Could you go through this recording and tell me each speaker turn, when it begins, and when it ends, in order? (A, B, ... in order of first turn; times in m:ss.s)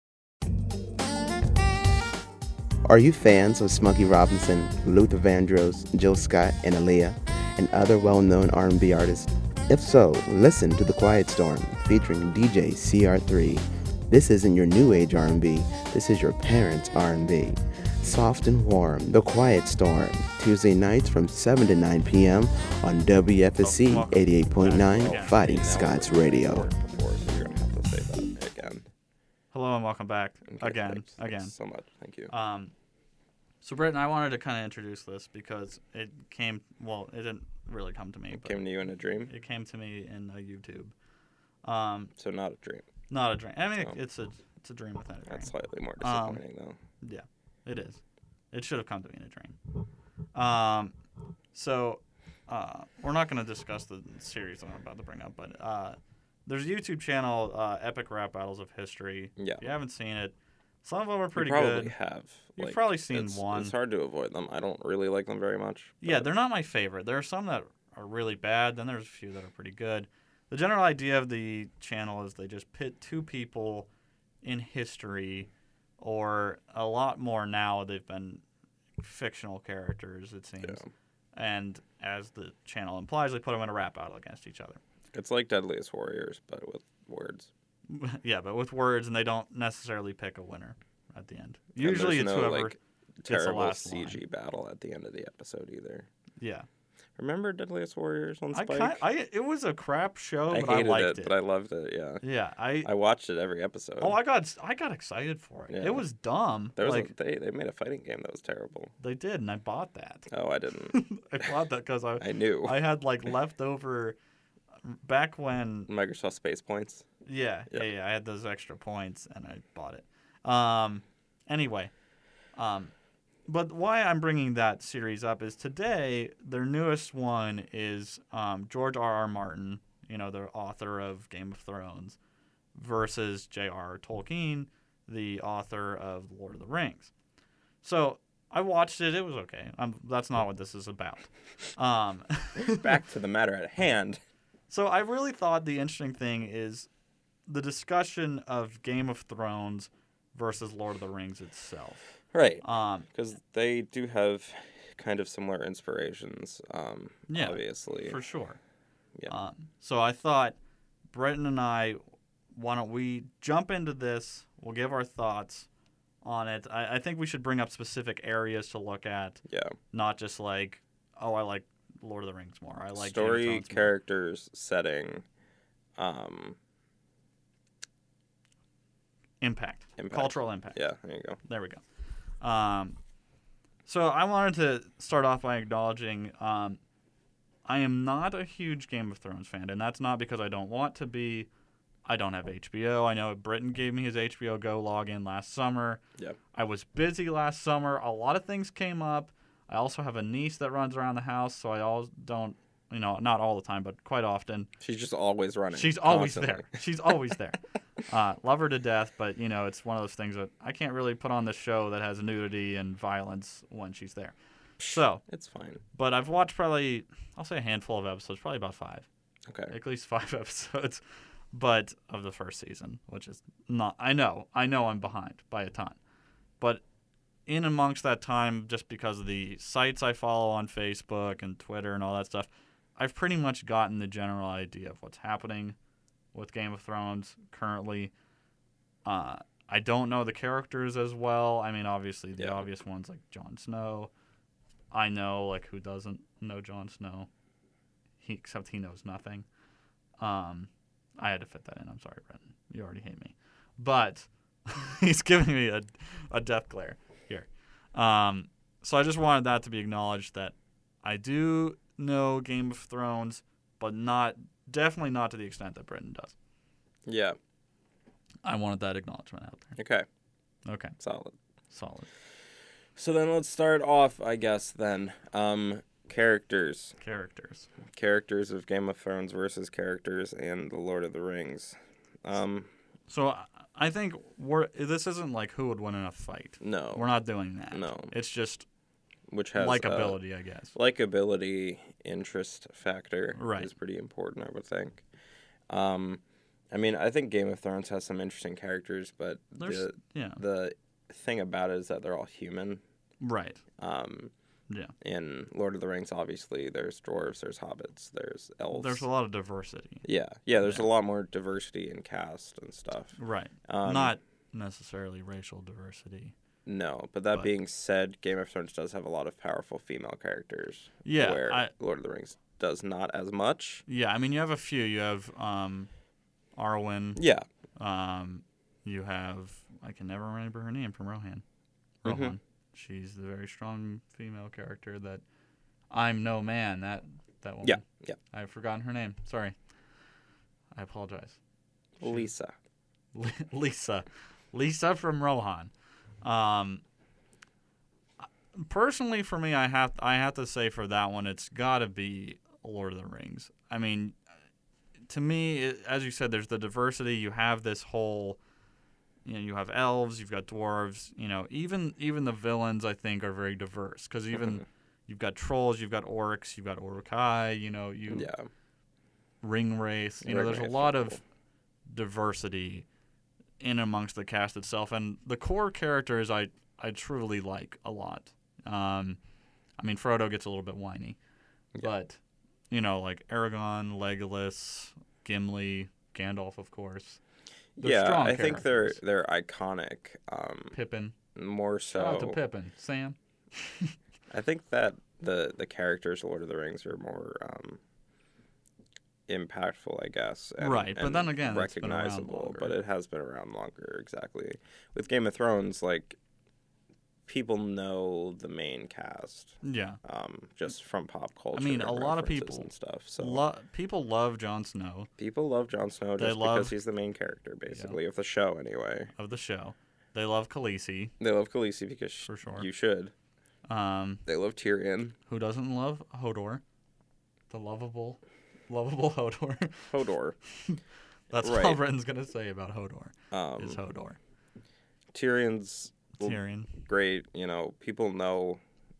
0:02.8-0:26.7 A
0:23.6-0:25.4 B
0:24.6-0:28.9 C
0:29.5-0:31.5 B
0:30.5-0:32.3 C
0:32.3-0:32.7 B
0:33.6-0:38.6 B
0:38.3-0:39.3 C
0:39.3-0:40.9 B
0:41.6-0:42.1 B
0:42.2-0:42.9 C
0:43.1-0:46.4 B
0:45.3-0:46.8 C
0:47.0-0:49.6 B
0:50.3-0:51.0 B
0:51.5-1:01.9 B
0:59.4-0:59.6 C
1:01.4-1:06.3 C
1:02.6-1:03.7 B
1:06.0-1:13.9 B
1:14.4-1:18.4 B
1:19.0-1:20.8 B
1:20.6-1:20.9 C
1:21.4-1:24.8 B
1:25.1-1:27.5 C
1:27.9-1:34.2 B
1:31.8-1:36.1 C
1:36.4-1:36.7 B
1:37.2-1:39.0 C
1:38.5-1:41.4 B
1:40.5-1:42.2 C
1:42.2-1:42.9 B
1:42.8-1:44.2 C
1:44.0-1:47.1 B
1:45.7-1:46.1 C
1:46.8-1:48.9 C
1:49.0-1:50.3 B
1:50.3-1:51.5 C
1:50.9-1:54.2 B
1:52.2-1:52.8 C
1:54.8-1:55.9 B
1:55.9-1:57.1 C
1:57.3-2:01.9 B
2:02.5-2:02.9 B
2:03.5-2:12.2 B
2:12.7-2:17.1 B
2:17.8-2:22.9 B
2:22.6-2:24.2 C
2:24.7-2:26.9 B
2:27.5-2:33.1 B
2:32.3-2:38.2 C
2:37.3-2:38.6 B
2:39.3-2:40.6 B
2:41.1-2:42.0 B
2:42.5-2:45.7 B
2:46.2-2:53.9 B
2:49.5-2:49.8 C
2:53.0-2:55.2 C
2:56.0-2:56.6 C
2:59.4-3:00.9 B
3:00.0-3:01.4 C
3:01.4-3:01.8 B
3:02.4-3:03.0 B
3:03.9-3:06.8 B
3:07.6-3:11.5 B
3:12.0-3:16.0 B
3:16.5-3:24.7 B
3:24.8-3:26.8 C
3:25.7-3:35.3 B
3:34.8-3:35.8 C
3:35.9-3:39.1 B
3:39.5-3:39.7 C
3:39.7-3:46.0 B
3:47.5-3:55.8 B
3:56.3-3:58.1 B
3:59.1-4:04.1 B
4:02.4-4:02.6 C
4:04.9-4:07.3 B
4:08.2-4:09.5 B
4:10.2-4:26.3 B
4:27.1-4:27.4 C
4:28.4-4:29.8 B
4:29.8-4:30.1 C
4:30.7-4:31.0 B
4:31.0-4:31.4 C
4:31.7-4:32.1 B
4:33.0-4:37.0 C
4:37.0-4:37.7 B
4:37.9-4:42.7 C
4:43.1-4:48.7 B
4:46.6-4:47.1 C
4:47.7-4:48.1 C
4:49.3-4:50.2 C
4:49.6-4:50.8 B
4:50.7-4:55.0 C
4:53.4-4:53.7 B
4:55.7-5:02.8 C
4:59.6-5:00.4 B
5:03.2-5:03.6 B
5:03.8-5:04.3 C
5:05.0-5:09.1 C
5:08.7-5:10.1 B
5:10.0-5:14.2 C
5:10.6-5:10.9 B
5:13.2-5:16.4 B
5:16.7-5:23.8 C
5:21.0-5:21.7 B
5:23.9-5:25.9 B
5:26.6-5:27.2 B
5:27.2-5:27.5 C
5:27.8-5:31.4 B
5:32.0-5:35.2 B
5:32.0-5:32.4 C
5:35.9-5:39.6 B
5:37.6-5:38.2 C
5:40.7-5:41.4 B
5:42.0-5:42.5 C
5:42.0-5:42.3 B
5:43.2-5:46.8 B
5:48.2-5:54.2 B
5:55.1-5:58.4 B
5:59.2-6:08.3 B
6:04.3-6:04.6 C
6:08.1-6:08.5 C
6:09.4-6:11.2 B
6:10.2-6:11.2 C
6:11.9-6:12.9 B
6:13.6-6:19.2 B
6:19.8-6:21.2 B
6:21.8-6:27.2 B
6:27.8-6:30.8 C
6:27.8-6:29.0 B
6:30.7-6:31.2 B
6:31.4-6:32.4 C
6:31.9-6:33.9 B
6:34.3-6:37.8 C
6:39.3-6:46.2 C
6:40.6-6:42.7 B
6:47.3-6:53.4 C
6:49.6-6:50.0 B
6:51.5-6:55.1 B
6:55.2-6:59.1 C
6:56.2-6:56.7 B
6:57.7-6:58.0 B
6:59.2-7:01.2 B
7:01.2-7:03.1 C
7:02.3-7:02.7 B
7:03.7-7:04.2 B
7:04.3-7:05.2 C
7:05.3-7:06.6 B
7:07.5-7:10.0 B
7:09.9-7:10.4 C
7:10.5-7:10.8 B
7:11.3-7:14.2 B
7:11.4-7:11.8 C
7:13.3-7:13.8 C
7:15.1-7:18.6 C
7:16.2-7:16.8 B